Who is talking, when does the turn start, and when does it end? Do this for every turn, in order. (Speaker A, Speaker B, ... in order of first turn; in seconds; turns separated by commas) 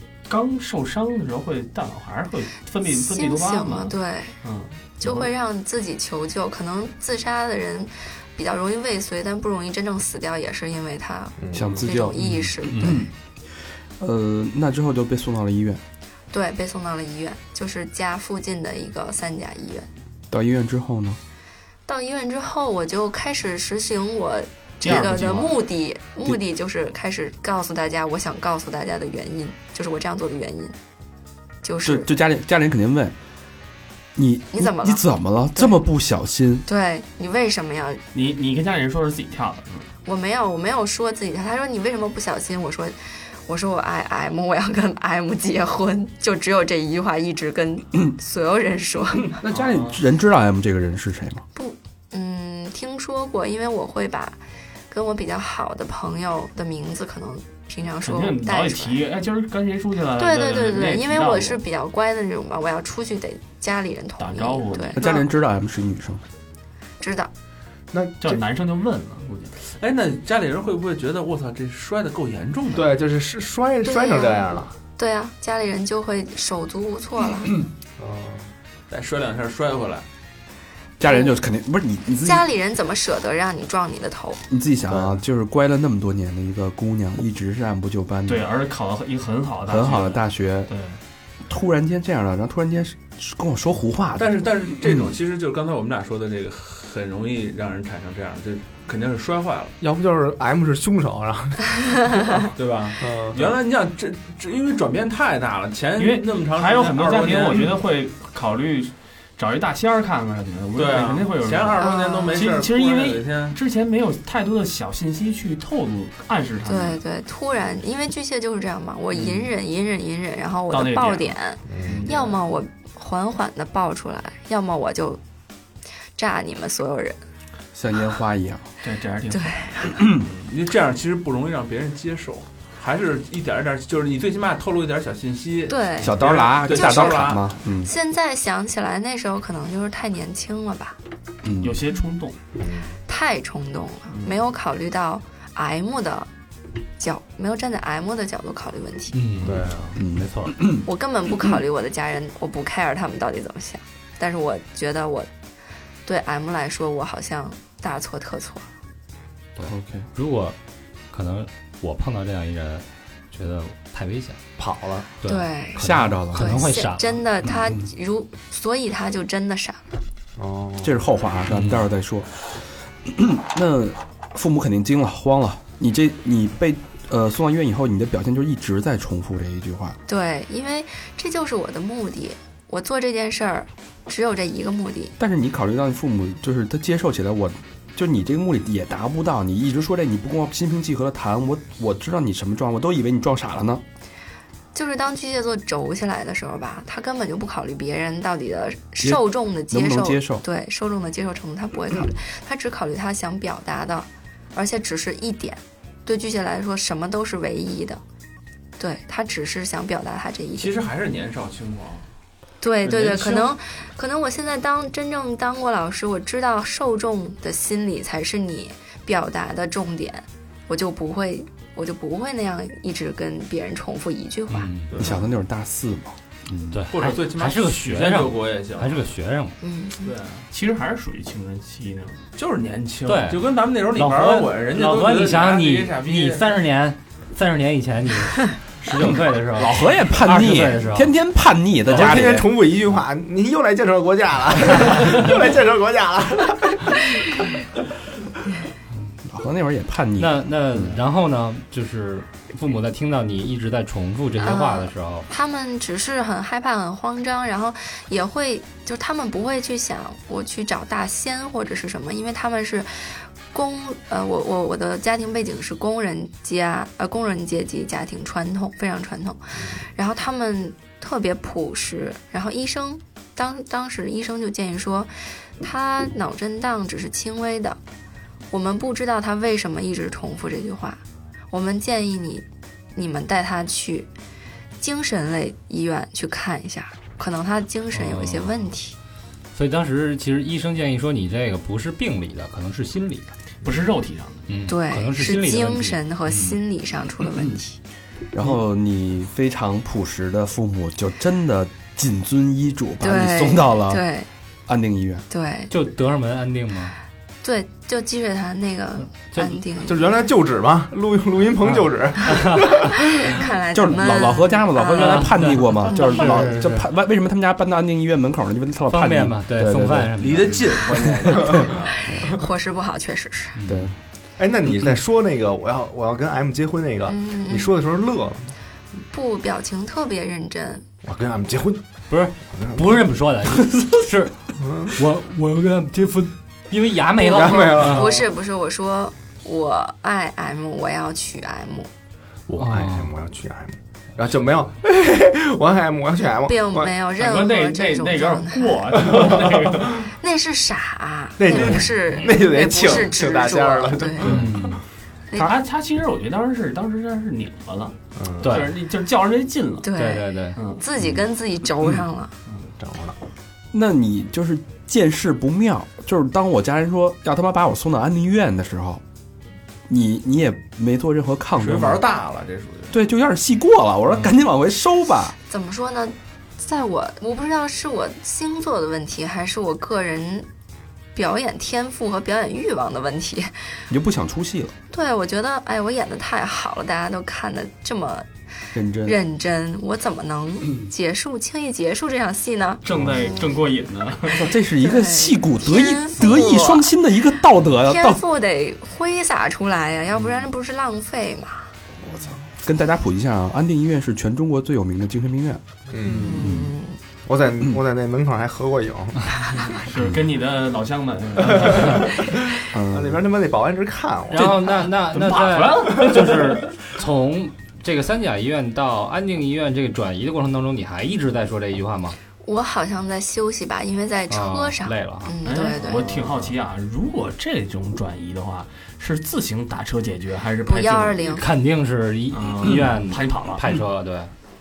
Speaker A: 0.3-5.3, Speaker B: 2.9-4.3, Speaker B: 5.0-13.0, Speaker C: 11.4-11.8, Speaker D: 11.5-12.2, Speaker E: 12.2-13.1, Speaker D: 12.8-13.1, Speaker D: 14.0-15.8, Speaker B: 16.3-19.9, Speaker D: 20.3-21.2, Speaker B: 21.9-30.8, Speaker A: 24.8-25.6, Speaker B: 31.6-32.1, Speaker D: 31.8-33.1, Speaker D: 34.1-36.6, Speaker B: 34.5-35.0, Speaker B: 35.5-35.8, Speaker B: 36.7-38.0, Speaker A: 38.1-39.9, Speaker B: 40.0-49.4, Speaker D: 49.4-51.4, Speaker A: 49.5-50.0, Speaker B: 51.5-54.4, Speaker B: 54.9-59.0, Speaker A: 58.0-61.6, Speaker B: 60.2-65.2, Speaker A: 64.2-65.1, Speaker D: 65.0-66.2, Speaker B: 67.0-67.3, Speaker C: 67.9-68.4, Speaker A: 68.2-69.6, Speaker F: 69.6-72.9, Speaker C: 72.7-74.7, Speaker B: 73.8-74.4, Speaker B: 75.0-77.5, Speaker C: 78.0-78.5, Speaker F: 78.9-80.0, Speaker D: 81.0-82.5, Speaker B: 81.0-81.3, Speaker B: 82.2-84.4, Speaker D: 84.5-88.5, Speaker C: 84.9-85.2, Speaker A: 88.3-91.0, Speaker D: 89.7-90.7, Speaker D: 91.5-94.3, Speaker F: 94.2-99.7, Speaker C: 99.8-102.5, Speaker F: 102.5-107.8, Speaker C: 103.0-103.5, Speaker A: 106.0-117.0, Speaker F: 110.7-113.6, Speaker B: 111.8-112.4, Speaker B: 116.7-125.2, Speaker A: 120.7-122.3, Speaker C: 121.7-122.1, Speaker B: 126.2-127.2, Speaker D: 127.7-128.7, Speaker A: 128.8-129.6, Speaker B: 129.3-130.0, Speaker D: 130.0-130.3, Speaker F: 130.2-137.5, Speaker B: 135.7-136.1, Speaker D: 136.0-137.9, Speaker B: 136.7-141.0, Speaker D: 141.4-141.8, Speaker A: 141.6-142.4, Speaker C: 142.6-143.0, Speaker B: 143.1-146.3, Speaker B: 147.0-149.2, Speaker E: 149.1-150.6, Speaker C: 149.4-150.0, Speaker D: 149.9-150.8, Speaker B: 150.8-155.3, Speaker B: 156.1-158.7, Speaker E: 159.6-160.6, Speaker D: 159.6-160.1, Speaker E: 161.1-164.4, Speaker C: 164.6-165.1, Speaker E: 165.2-167.2, Speaker B: 165.2-165.8, Speaker D: 165.8-166.7, Speaker B: 166.3-169.9, Speaker C: 170.4-171.0, Speaker D: 170.8-172.5, Speaker E: 171.5-171.8, Speaker D: 173.0-180.0, Speaker B: 180.1-185.1, Speaker D: 185.2-193.8, Speaker B: 194.7-208.0, Speaker D: 199.0-200.4, Speaker B: 208.8-210.8, Speaker F: 210.5-212.1, Speaker B: 212.6-224.7, Speaker F: 212.8-213.6, Speaker E: 224.5-224.9, Speaker F: 224.9-225.2, Speaker D: 225.0-226.2, Speaker E: 226.5-229.6, Speaker F: 226.9-229.1, Speaker B: 229.6-230.0, Speaker F: 230.0-230.5, Speaker A: 230.5-232.3, Speaker F: 232.3-236.5, Speaker E: 233.1-233.4, Speaker E: 233.9-241.1, Speaker D: 239.6-242.5, Speaker E: 241.9-242.2, Speaker C: 241.9-247.4, Speaker D: 249.3-251.0, Speaker E: 250.2-255.3, Speaker B: 254.4-277.8, Speaker B: 278.5-284.1, Speaker B: 284.8-288.9, Speaker E: 287.9-288.5, Speaker E: 289.5-293.3, Speaker A: 293.6-294.5, Speaker E: 294.5-296.6, Speaker B: 294.7-297.8, Speaker D: 298.3-304.0, Speaker B: 303.0-304.3, Speaker D: 304.7-305.2, Speaker B: 305.3-305.7, Speaker E: 305.7-306.9, Speaker B: 307.4-310.1, Speaker E: 309.3-309.6, Speaker C: 309.8-313.4, Speaker E: 312.2-312.7, Speaker B: 313.1-315.3, Speaker D: 313.7-320.1, Speaker E: 314.9-316.9, Speaker B: 315.8-316.4, Speaker E: 318.9-320.8, Speaker F: 320.2-322.0, Speaker C: 321.3-321.7, Speaker B: 322.1-323.6, Speaker E: 323.5-323.9, Speaker D: 323.7-323.9, Speaker C: 324.4-328.5, Speaker B: 327.1-327.7, Speaker B: 329.1-330.8, Speaker C: 331.0-331.8, Speaker E: 332.1-334.4, Speaker C: 332.5-333.0, Speaker C: 334.6-335.0, Speaker E: 334.9-338.1, Speaker C: 337.1-338.2, Speaker B: 337.4-341.9, Speaker C: 342.5-346.9, Speaker E: 342.6-343.1, Speaker B: 346.4-349.3, Speaker A: 347.2-350.1, Speaker C: 349.1-349.8, Speaker B: 350.1-354.4, Speaker C: 351.4-354.5, Speaker E: 354.2-354.8, Speaker A: 355.3-359.9, Speaker C: 358.1-358.7, Speaker E: 358.4-358.7, Speaker B: 359.8-362.3, Speaker E: 359.9-360.6, Speaker A: 360.6-360.8, Speaker C: 362.8-363.2, Speaker D: 363.7-369.0, Speaker D: 369.9-372.0, Speaker F: 371.6-372.9, Speaker D: 372.9-375.3, Speaker B: 375.4-380.5, Speaker B: 381.1-383.5, Speaker D: 383.9-384.7, Speaker B: 384.9-388.3, Speaker D: 388.7-389.2, Speaker B: 389.0-392.8, Speaker A: 392.8-394.5, Speaker D: 394.3-398.2, Speaker B: 394.8-396.9, Speaker B: 397.8-401.7, Speaker D: 402.6-405.6, Speaker C: 405.9-406.5, Speaker B: 406.1-407.0, Speaker D: 406.3-406.7, Speaker C: 407.2-409.5, Speaker A: 409.8-412.2, Speaker C: 411.4-412.3, Speaker D: 412.7-413.2, Speaker C: 412.9-414.6, Speaker E: 414.3-422.2, Speaker A: 414.7-416.8, Speaker B: 422.4-426.1, Speaker E: 424.3-425.4, Speaker A: 425.4-431.3, Speaker B: 430.6-431.4, Speaker E: 431.3-434.3, Speaker A: 432.3-433.6